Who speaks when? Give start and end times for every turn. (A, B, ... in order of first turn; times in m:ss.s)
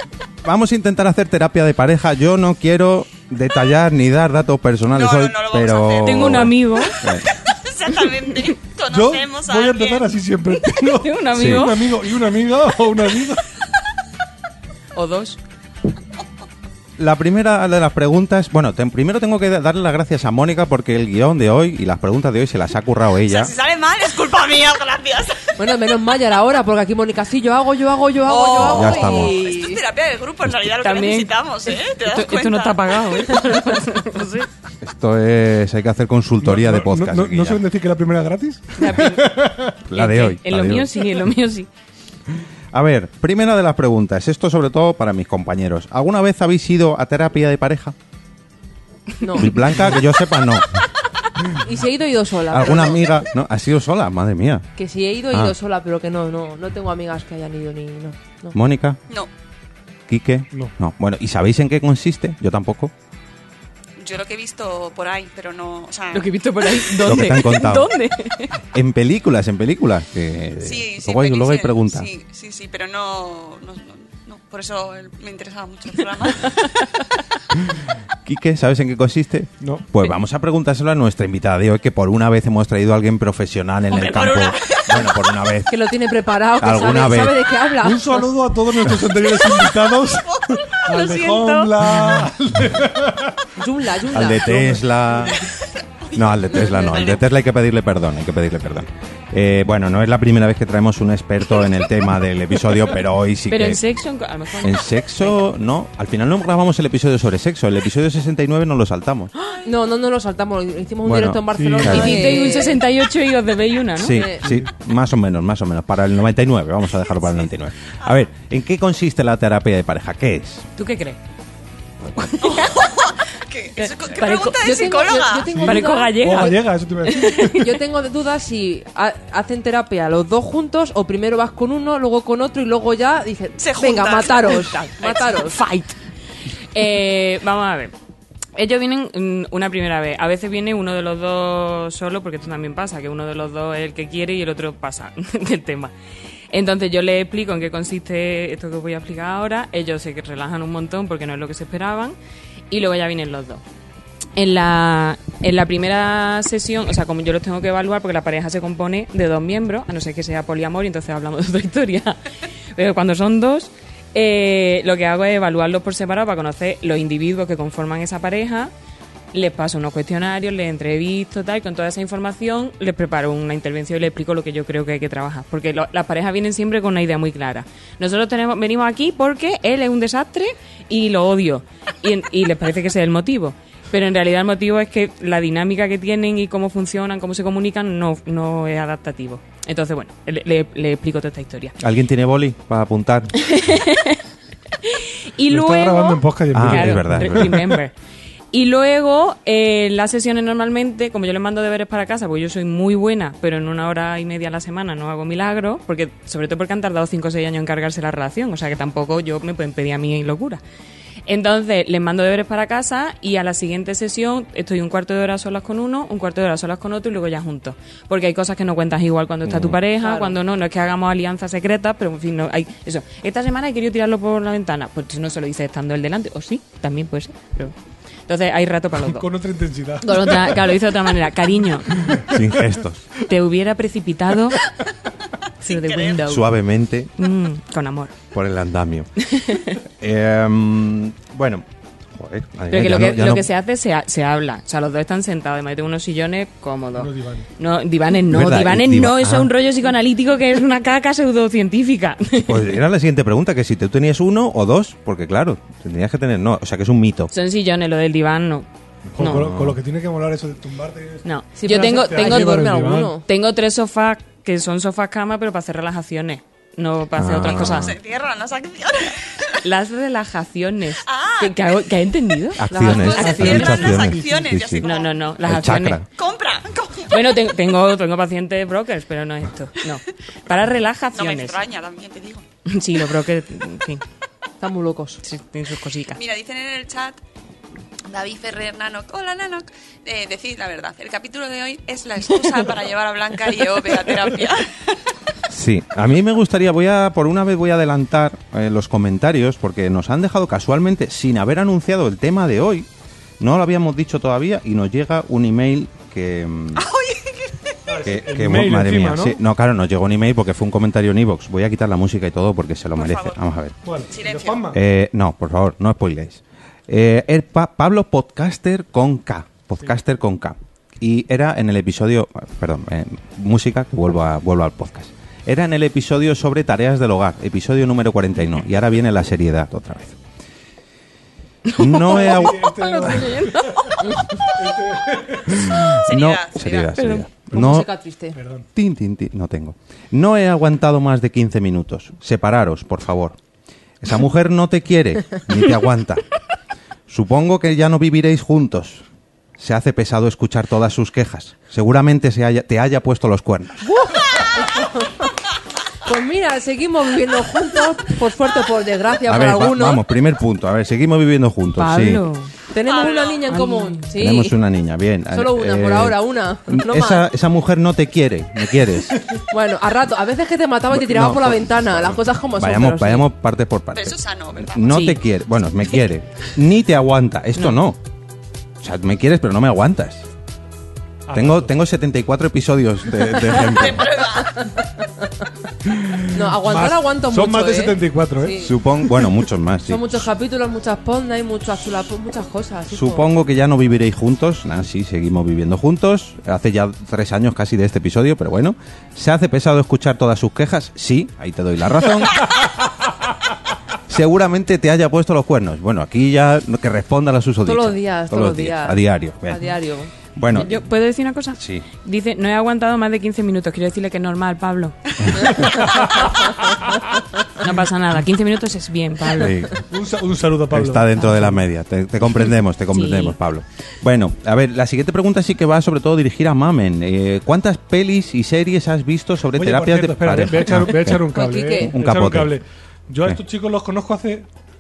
0:00.4-0:07.3 A
0:04.9-0:10.2 B
0:06.0-0:07.0 C
0:08.9-0:13.5 D
0:10.8-0:11.8 C
0:11.4-0:11.6 A
0:15.0-0:15.4 C
0:17.0-0:23.5 A
0:23.2-0:25.6 B
0:25.6-0:29.8 E
0:28.2-0:32.9 B
0:28.6-0:29.3 A
0:30.8-0:34.5 C
0:34.8-0:37.6 A
0:36.4-0:39.8 D
0:38.8-0:41.7 C
0:39.9-0:40.9 A
0:42.7-0:48.0 A
0:49.2-0:49.6 E
0:49.4-0:50.7 A
0:51.6-0:53.1 E
0:52.5-0:54.7 A
0:54.8-0:58.6 E
0:55.3-0:55.6 A
0:58.5-0:59.0 A
1:00.1-1:02.9 A
1:04.0-1:06.4 B
1:06.1-1:08.5 C
1:07.0-1:07.9 A
1:08.7-1:12.1 A
1:10.6-1:16.8 B
1:16.6-1:17.0 C
1:18.2-1:25.8 A
1:19.6-1:19.9 D
1:23.9-1:25.3 B
1:25.7-1:28.3 E
1:26.6-1:27.6 A
1:27.8-1:33.5 D
1:29.9-1:31.6 B
1:30.9-1:31.7 C
1:33.6-1:35.0 E
1:34.1-1:35.4 A
1:36.0-1:37.3 B
1:36.1-1:43.8 A
1:43.5-1:45.4 C
1:44.6-1:49.3 A
1:49.6-1:52.8 E
1:51.0-1:52.2 A
1:51.5-1:52.4 D
1:51.9-1:54.3 C
1:54.0-2:00.7 A
1:54.1-1:54.4 E
2:00.8-2:01.2 C
2:02.2-2:02.8 C
2:02.4-2:05.5 B
2:03.8-2:04.7 C
2:04.6-2:06.6 E
2:05.5-2:07.5 D
2:05.6-2:07.7 C
2:07.4-2:15.6 E
2:13.6-2:14.8 B
2:15.0-2:16.0 C
2:16.7-2:17.9 C
2:18.6-2:25.9 C
2:26.5-2:32.2 C
2:32.7-2:33.6 C
2:34.4-2:42.2 C
2:42.8-2:48.7 C
2:49.3-3:11.8 C
3:11.8-3:13.3 A
3:13.4-3:14.2 C
3:14.8-3:17.9 C
3:15.5-3:17.8 D
3:16.5-3:17.6 A
3:18.5-3:30.6 C
3:31.3-3:47.8 C
3:39.4-3:39.8 A
3:40.0-3:40.4 E
3:48.3-3:49.3 C
3:49.0-3:50.6 D
3:50.0-3:52.1 C
3:52.0-3:52.4 D
3:52.2-3:53.1 A
3:53.3-3:54.6 C
3:55.6-3:56.5 C
3:55.6-3:56.2 B
3:56.2-3:57.1 A
3:57.2-3:58.1 C
3:58.3-3:59.1 A
3:59.3-3:59.8 C
4:00.0-4:03.5 A
4:02.7-4:12.7 C
4:07.0-4:07.5 D
4:08.3-4:09.5 A
4:12.4-4:17.3 A
4:17.3-4:19.4 C
4:19.2-4:23.2 D
4:19.2-4:19.8 A
4:21.2-4:22.7 C
4:21.6-4:23.2 E
4:23.2-4:27.9 C
4:27.2-4:28.0 A
4:27.5-4:29.6 B
4:29.6-4:33.9 C
4:31.0-4:31.9 B
4:32.6-4:34.9 A
4:32.7-4:33.2 E
4:32.7-4:35.2 B
4:33.1-4:34.5 D
4:34.8-4:36.0 C
4:35.4-4:36.1 A
4:36.1-4:37.3 B
4:37.1-4:41.6 C
4:41.1-4:42.5 B
4:42.7-4:44.0 C
4:44.6-4:45.2 E
4:45.2-4:46.2 C
4:46.2-4:47.2 B
4:48.1-4:55.0 B
4:55.5-5:02.9 A
5:03.4-5:06.9 A
5:06.8-5:07.8 B
5:07.9-5:09.4 D
5:08.0-5:13.8 A
5:13.0-5:13.4 B
5:13.8-5:14.8 D
5:14.1-5:14.7 B
5:14.7-5:30.2 A
5:31.7-5:34.0 C
5:31.8-5:32.7 A
5:32.0-5:35.7 D
5:35.5-5:37.9 A
5:36.0-5:37.0 B
5:37.0-5:37.2 C
5:37.5-5:38.4 E
5:38.4-5:38.7 D
5:38.8-5:43.4 A
5:44.0-5:46.2 A
5:47.1-5:49.0 A
5:49.6-5:53.9 A
5:53.9-5:55.3 E
5:56.0-6:00.0 E
5:59.3-6:02.2 A
6:01.8-6:02.5 C
6:02.7-6:04.6 E
6:02.9-6:03.6 B
6:03.5-6:04.1 C
6:04.2-6:09.2 A
6:05.3-6:07.3 E
6:09.5-6:13.3 E
6:10.9-6:18.0 A
6:13.9-6:15.1 B
6:14.9-6:15.2 C
6:18.8-6:20.3 A
6:21.3-6:21.7 D
6:21.3-6:24.2 A
6:23.5-6:24.8 B
6:25.9-6:29.3 D
6:26.3-6:28.7 E
6:28.6-6:30.3 A
6:29.8-6:33.3 E
6:32.9-6:42.6 A
6:44.1-6:49.7 A
6:47.6-6:50.1 E
6:50.4-6:50.8 A
6:50.5-6:56.2 C
6:51.6-6:51.9 A
6:55.7-6:56.1 D
6:57.6-6:59.5 C
6:59.4-6:59.8 A
6:59.9-7:01.6 D
7:00.7-7:11.3 A
7:02.9-7:03.4 C
7:09.5-7:14.5 D
7:11.3-7:12.0 E
7:11.8-7:12.6 A